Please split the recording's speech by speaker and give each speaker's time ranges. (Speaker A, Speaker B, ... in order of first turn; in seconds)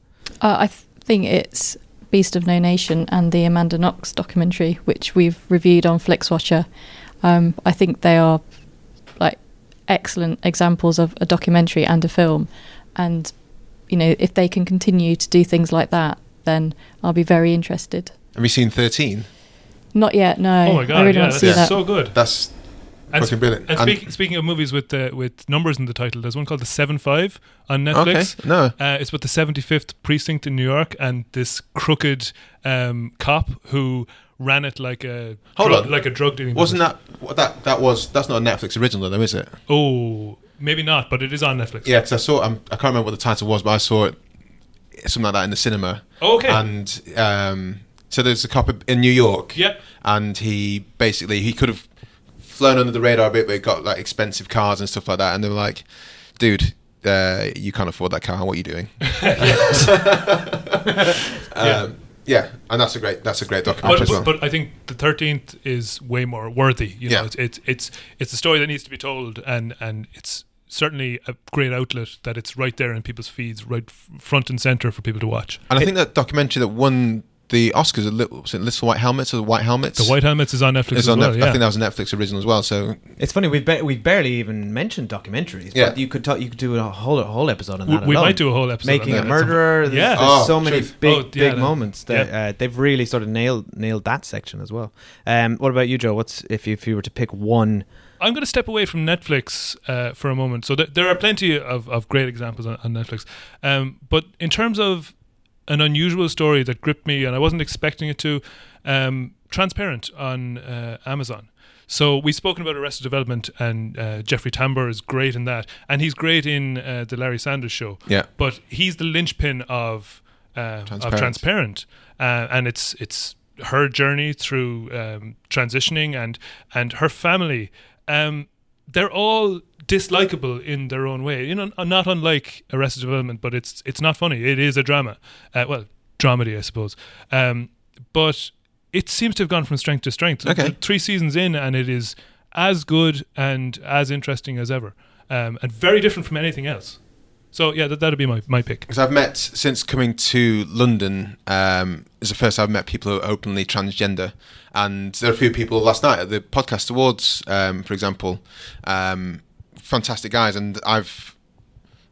Speaker A: 0.4-18.1, 19.9-21.9
Speaker B: 18.4-19.3, 21.3-24.1, 27.9-28.8, 35.6-39.6, 41.8-64.4, 67.0-67.3, 75.7-83.1, 89.0-90.9, 120.9-121.5, 140.4-140.8, 148.9-161.7
Speaker C: 20.6-37.0, 39.7-41.9, 46.2-46.6, 49.5-49.8, 59.2-59.9, 61.6-62.0, 63.8-75.8, 80.0-81.6, 87.9-92.3, 98.2-148.9
Speaker D: 63.8-64.2, 83.2-97.9